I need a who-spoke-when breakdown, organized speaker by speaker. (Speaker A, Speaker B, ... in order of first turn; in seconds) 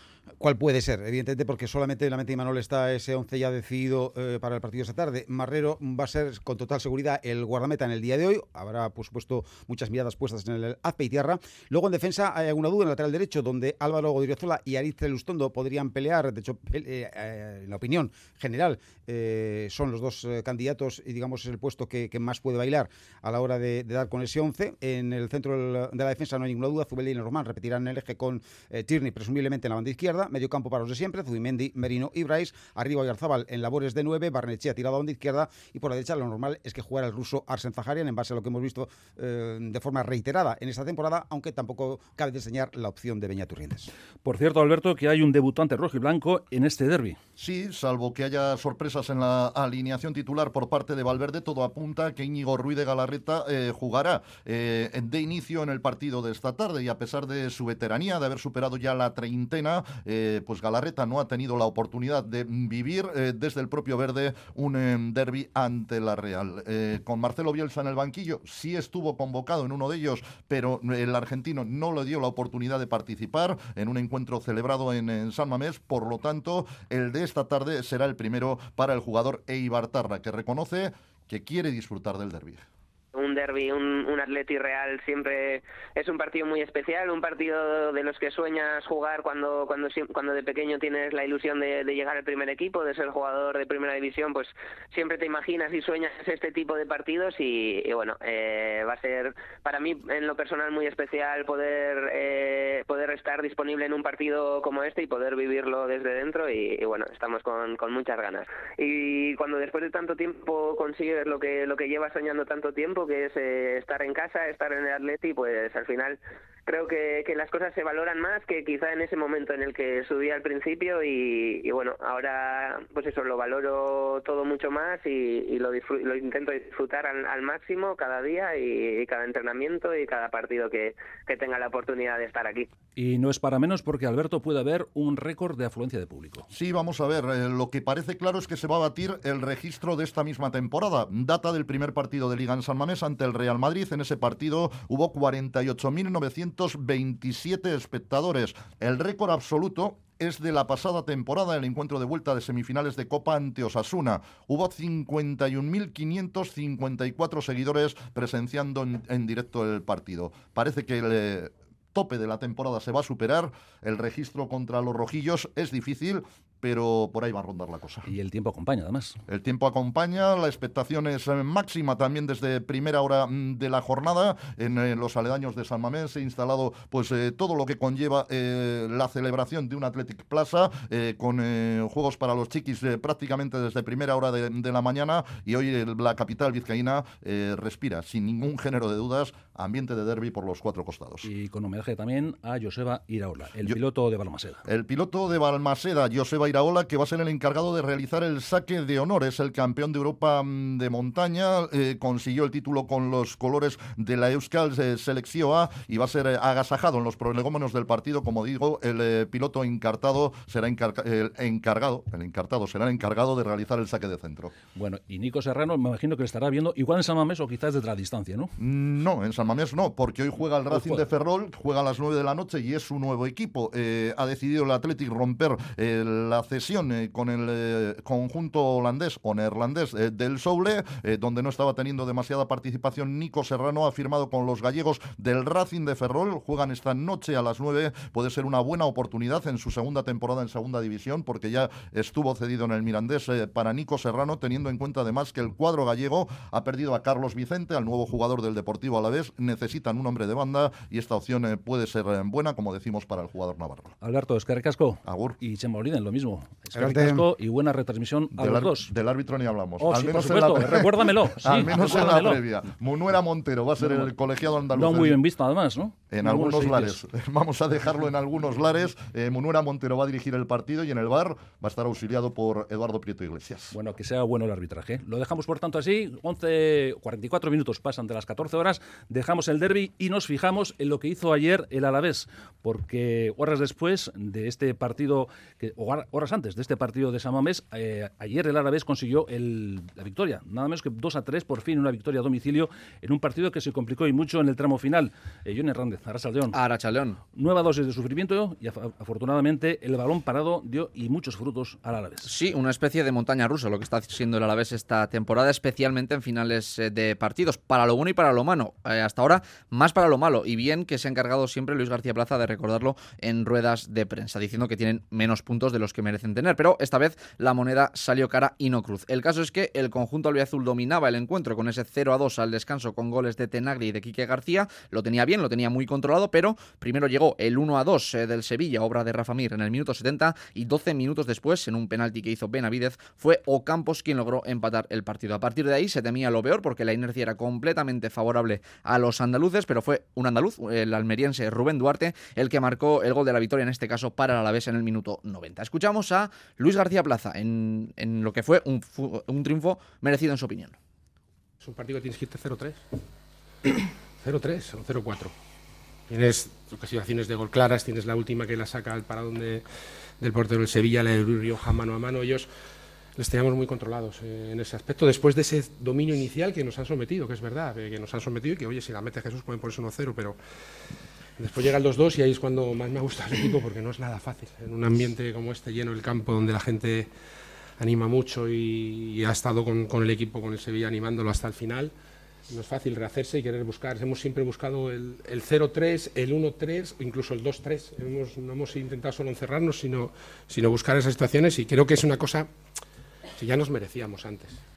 Speaker A: 0.4-43.9, 256.7-257.2
Speaker B: 44.2-47.2, 133.0-136.5, 168.1-169.2, 191.2-194.6, 214.8-218.5, 220.7-221.1, 254.0-258.9, 259.8-262.4, 263.8-264.1, 264.7-267.0, 273.7-296.6, 297.3-302.3
Speaker C: 47.4-82.6, 136.5-168.1, 169.3-191.3, 194.7-214.5, 218.6-253.9, 255.1-255.4, 258.3-265.2, 266.1-273.7
Speaker D: 83.1-132.7
Speaker E: 296.5-297.2, 302.2-350.8
Speaker F: 351.6-352.9, 353.7-355.4, 356.1-359.6, 360.2-362.5, 363.2-370.4, 371.4-377.1, 377.8-381.9, 382.5-392.5, 393.4-394.6